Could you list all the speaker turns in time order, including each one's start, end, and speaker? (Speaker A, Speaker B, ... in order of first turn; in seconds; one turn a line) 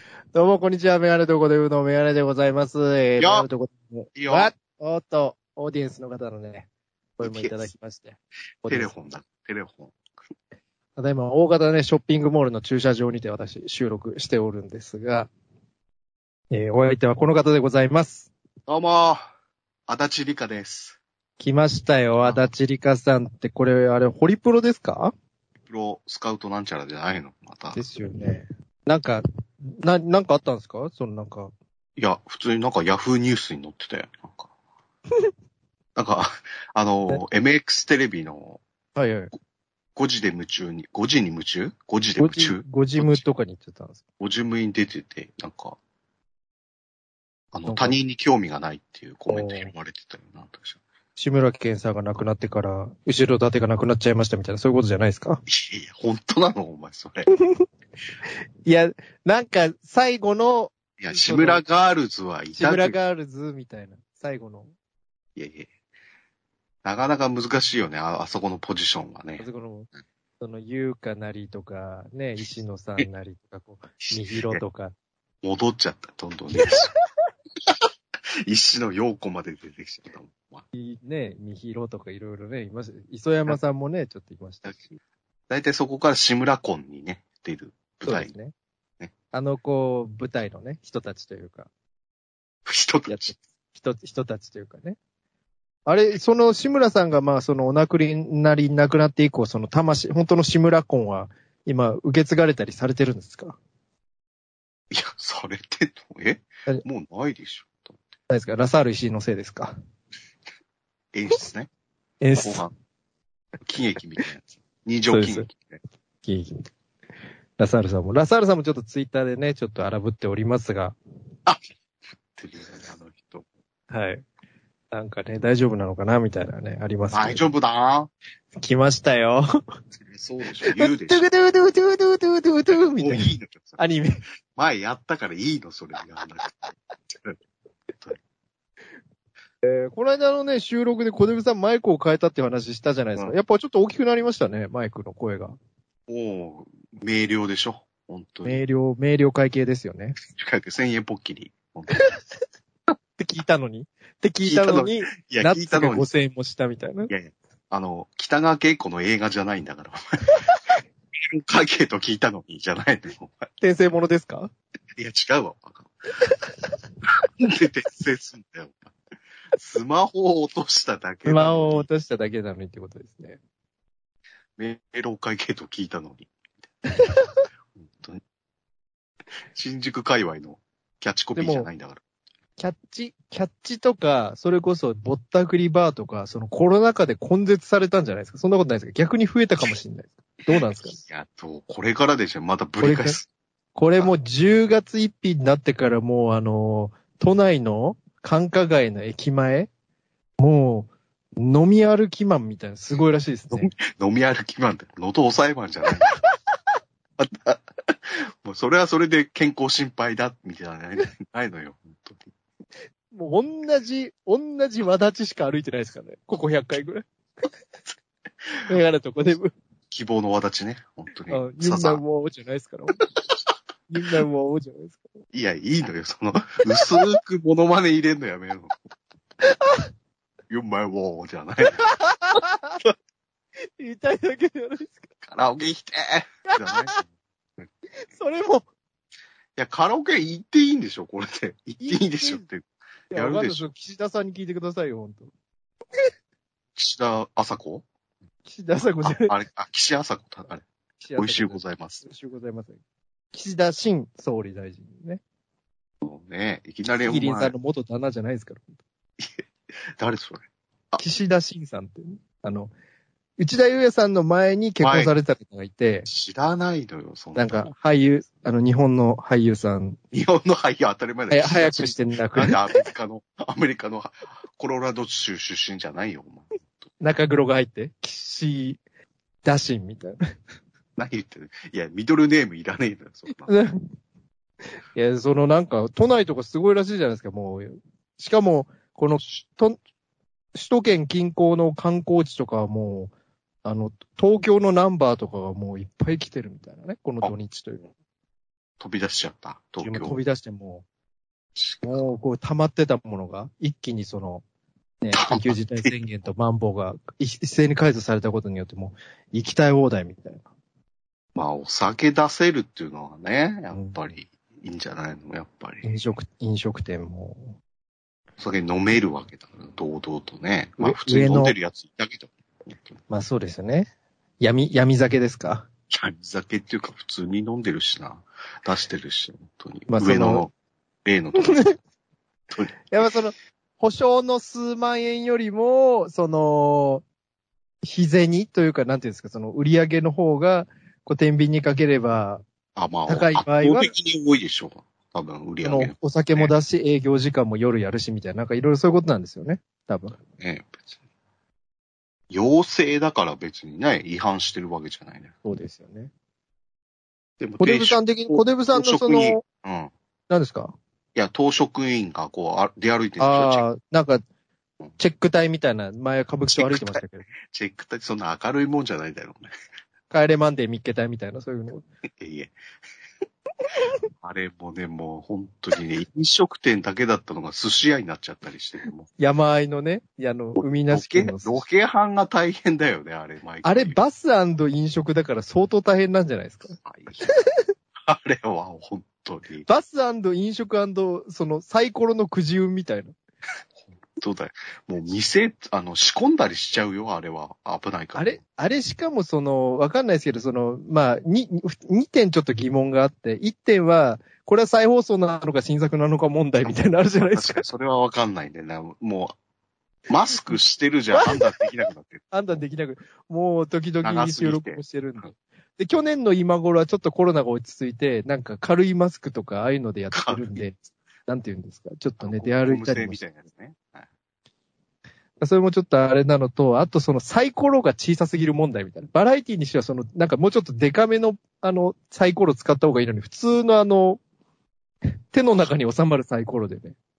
Speaker A: 0.3-6.7
Speaker B: 3.2-3.5
Speaker B: 4.1-4.5
Speaker A: 7.2-8.9
Speaker B: 7.2-7.7
Speaker B: 8.7-10.0
Speaker A: 10.9-15.3
Speaker A: 16.5-18.3
Speaker B: 18.7-19.3
Speaker B: 19.9-21.0
Speaker A: 21.4-25.1
Speaker B: 22.2-22.5
Speaker B: 25.7-27.8
Speaker A: 27.7-31.5
Speaker B: 32.0-34.5
Speaker B: 36.0-38.6
Speaker A: 39.0-39.3
Speaker B: 40.0-43.3
Speaker A: 42.2-44.0
Speaker B: 44.2-45.8
Speaker B: 47.5-50.8
Speaker A: 47.7-48.0
Speaker A: 49.3-49.7
Speaker A: 51.2-55.4
Speaker B: 55.5-57.3
Speaker A: 58.6-61.6
Speaker B: 61.0-63.0
Speaker A: 62.5-64.7
Speaker B: 65.4-65.7
Speaker B: 66.8-69.4
Speaker A: 69.4-69.9
Speaker A: 70.4-74.9
Speaker B: 74.0-74.6
Speaker B: 75.4-76.9
Speaker A: 76.6-76.9
Speaker B: 78.5-80.6
Speaker A: 80.7-84.8
Speaker B: 84.6-85.0
Speaker B: 85.5-88.3
Speaker A: 88.0-88.5
Speaker A: 89.3-91.7
Speaker B: 92.7-93.3
Speaker A: 93.1-95.0
Speaker A: 95.9-103.6
Speaker B: 104.9-108.0
Speaker A: 108.3-109.8
Speaker B: 111.1-111.7
Speaker A: 112.2-112.7
Speaker B: 112.4-112.7
Speaker B: 113.6-115.8
Speaker A: 115.1-115.5
Speaker A: 116.2-116.7
Speaker A: 117.6-121.0
Speaker B: 122.2-123.5
Speaker A: 123.9-124.2
Speaker A: 124.9-127.5
Speaker B: 127.1-128.1
Speaker A: 128.5-129.5
Speaker B: 130.0-131.3
Speaker A: 130.7-134.2
Speaker B: 132.7-133.8
Speaker B: 134.6-137.4
Speaker A: 139.6-145.6
Speaker B: 146.1-148.6
Speaker A: 148.4-150.2
Speaker B: 150.3-152.0
Speaker A: 153.2-157.1
Speaker B: 154.5-156.1
Speaker B: 157.1-160.3
Speaker A: 160.3-160.8
Speaker B: 161.1-163.5
Speaker A: 163.6-164.5
Speaker B: 165.0-165.9
Speaker B: 167.1-168.9
Speaker B: 169.6-171.8
Speaker A: 171.2-173.4
Speaker B: 174.6-176.3
Speaker A: 177.0-177.3
Speaker B: 177.8-178.2
Speaker B: 179.5-182.0
Speaker A: 181.3-181.7
Speaker A: 182.6-191.0
Speaker B: 191.0-193.3
Speaker A: 192.8-193.2
Speaker A: 193.8-199.7
Speaker A: 200.4-203.7
Speaker B: 203.5-206.1
Speaker B: 207.2-212.3
Speaker A: 213.1-217.0
Speaker A: 218.7-219.5
Speaker B: 219.9-222.0
Speaker A: 221.3-223.0
Speaker A: 223.9-225.0
Speaker B: 225.3-228.7
Speaker A: 229.5-229.8
Speaker B: 230.5-231.9
Speaker A: 231.8-232.8
Speaker A: 233.8-235.1
Speaker B: 235.2-237.0
Speaker A: 236.5-237.0
Speaker A: 238.0-238.7
Speaker B: 239.6-243.7
Speaker A: 241.8-242.4
Speaker A: 243.1-245.3
Speaker B: 246.8-247.8
Speaker A: 248.5-249.3
Speaker B: 249.0-250.6
Speaker A: 251.0-252.8
Speaker B: 251.2-252.1
Speaker A: 253.3-255.2
Speaker B: 256.0-257.5
Speaker A: 257.0-258.8
Speaker B: 259.2-261.0
Speaker A: 261.0-262.7
Speaker A: 263.4-266.1
Speaker B: 264.8-265.1
Speaker B: 266.1-267.7
Speaker A: 267.4-270.0
Speaker B: 270.1-276.9
Speaker A: 271.3-272.6
Speaker A: 277.0-278.8
Speaker A: 279.4-280.2
Speaker B: 281.0-283.5
Speaker A: 283.3-283.8
Speaker A: 284.9-289.8
Speaker A: 290.6-293.1
Speaker A: 293.6-297.9
Speaker B: 298.8-300.2
Speaker A: 299.8-300.9
Speaker B: 301.6-302.0
Speaker A: 301.8-304.4
Speaker A: 305.0-310.4
Speaker B: 305.1-305.9
Speaker B: 311.4-315.9
Speaker A: 313.7-314.0
Speaker A: 315.8-317.5
Speaker B: 318.4-323.0
Speaker A: 320.8-321.6
Speaker A: 323.1-325.7
Speaker B: 325.9-330.5
Speaker A: 329.9-330.5
Speaker B: 331.1-331.6
Speaker B: 332.5-332.8
Speaker A: 332.9-337.0
Speaker A: 337.8-342.4
Speaker B: 342.8-346.5
Speaker A: 343.1-343.9
Speaker A: 345.6-350.2
Speaker B: 350.4-350.9
Speaker B: 352.3-355.3
Speaker A: 355.4-356.1
Speaker B: 357.4-359.9
Speaker A: 357.6-359.4
Speaker A: 360.3-360.8
Speaker B: 361.1-363.6
Speaker A: 363.2-364.2
Speaker A: 365.0-367.3
Speaker B: 366.5-369.5
Speaker A: 370.1-371.8
Speaker B: 372.2-372.6
Speaker B: 374.2-379.1
Speaker A: 379.2-381.6
Speaker B: 380.6-384.0
Speaker A: 383.6-387.4
Speaker B: 386.9-387.3
Speaker B: 388.0-389.7
Speaker A: 389.6-393.1
Speaker B: 394.2-398.4
Speaker A: 398.1-407.6
Speaker B: 407.3-409.4
Speaker B: 410.1-412.3
Speaker A: 411.2-411.6
Speaker A: 412.3-423.2
Speaker B: 414.0-415.3
Speaker B: 420.1-420.6
Speaker B: 422.2-424.1
Speaker A: 425.4-434.2
Speaker A: 435.3-436.9